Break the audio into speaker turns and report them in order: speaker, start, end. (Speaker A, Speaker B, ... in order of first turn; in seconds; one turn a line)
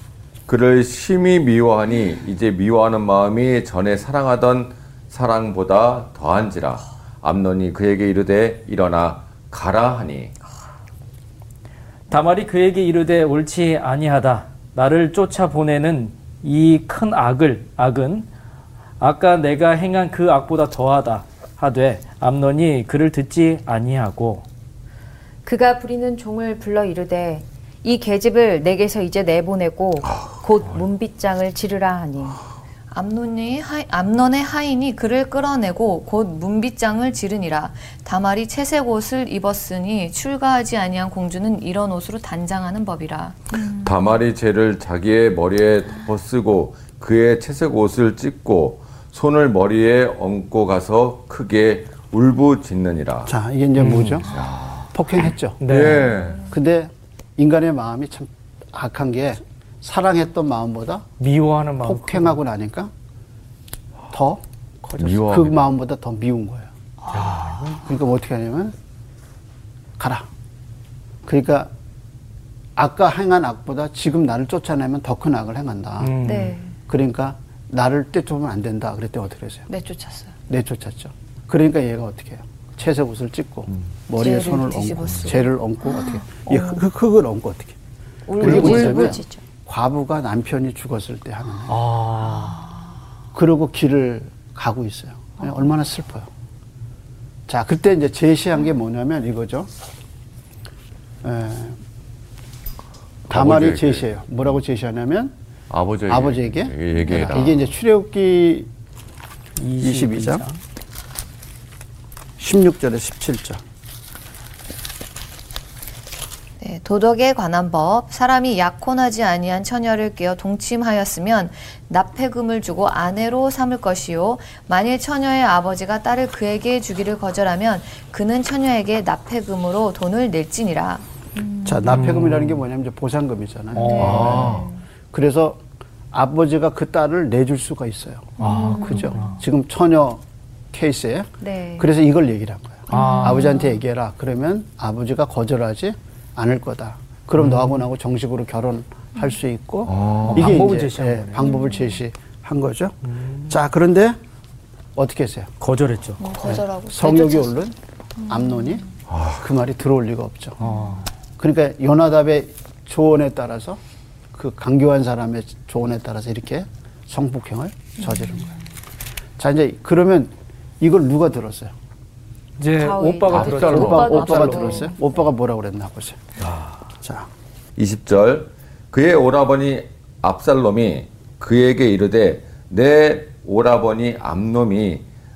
Speaker A: 0.5-10.3
Speaker B: 12.1-18.3
Speaker B: 19.0-24.4
Speaker C: 25.4-32.4
Speaker D: 32.9-43.7
Speaker A: 43.7-53.3
Speaker E: 53.2-54.3
Speaker B: 53.8-54.2
Speaker A: 54.2-56.5
Speaker E: 54.9-55.6
Speaker B: 55.6-56.0
Speaker E: 56.5-61.1
Speaker B: 61.2-62.4
Speaker E: 61.8-62.9
Speaker E: 64.1-64.4
Speaker A: 65.0-65.7
Speaker E: 65.0-66.7
Speaker D: 67.0-67.8
Speaker B: 67.1-67.8
Speaker E: 67.8-68.7
Speaker E: 70.0-70.3
Speaker E: 71.2-71.7
Speaker E: 72.8-76.1
Speaker B: 76.0-76.6
Speaker C: 76.2-76.7
Speaker E: 76.9-79.7
Speaker D: 79.7-80.3
Speaker E: 80.5-87.8
Speaker D: 84.1-86.7
Speaker D: 88.3-89.3
Speaker E: 88.4-91.8
Speaker A: 88.4-89.2
Speaker B: 88.5-88.8
Speaker B: 91.7-92.6
Speaker E: 93.3-96.3
Speaker E: 97.5-99.7
Speaker E: 101.2-101.8
Speaker E: 103.3-105.3
Speaker A: 103.3-104.1
Speaker A: 105.7-107.7
Speaker E: 106.1-108.7
Speaker D: 107.2-107.4
Speaker B: 109.6-110.6
Speaker E: 109.8-110.4
Speaker E: 112.4-113.6
Speaker D: 116.6-131.0
Speaker C: 131.4-131.9
Speaker E: 131.6-135.6
Speaker B: 131.9-132.6
Speaker B: 133.8-134.4
Speaker C: 133.8-134.7
Speaker A: 134.0-134.7
Speaker E: 136.1-154.2
Speaker B: 138.4-139.4
Speaker C: 138.4-139.2
Speaker D: 138.4-139.1
Speaker C: 141.4-141.9
Speaker D: 142.9-143.7
Speaker C: 142.9-143.6
Speaker B: 142.9-143.4
Speaker B: 147.4-147.8
Speaker A: 149.8-150.6
Speaker B: 150.2-151.5
Speaker B: 153.1-153.5
Speaker E: 154.9-155.5
Speaker B: 155.6-156.5
Speaker D: 156.2-157.7
Speaker E: 156.4-157.7
Speaker E: 158.2-160.6
Speaker A: 159.1-159.4
Speaker B: 160.6-161.0
Speaker E: 161.4-163.8
Speaker E: 164.3-168.5
Speaker E: 169.4-171.7
Speaker B: 172.6-174.8
Speaker C: 172.8-174.9
Speaker A: 173.3-174.5
Speaker E: 173.7-176.2
Speaker E: 177.0-177.3
Speaker A: 177.8-185.0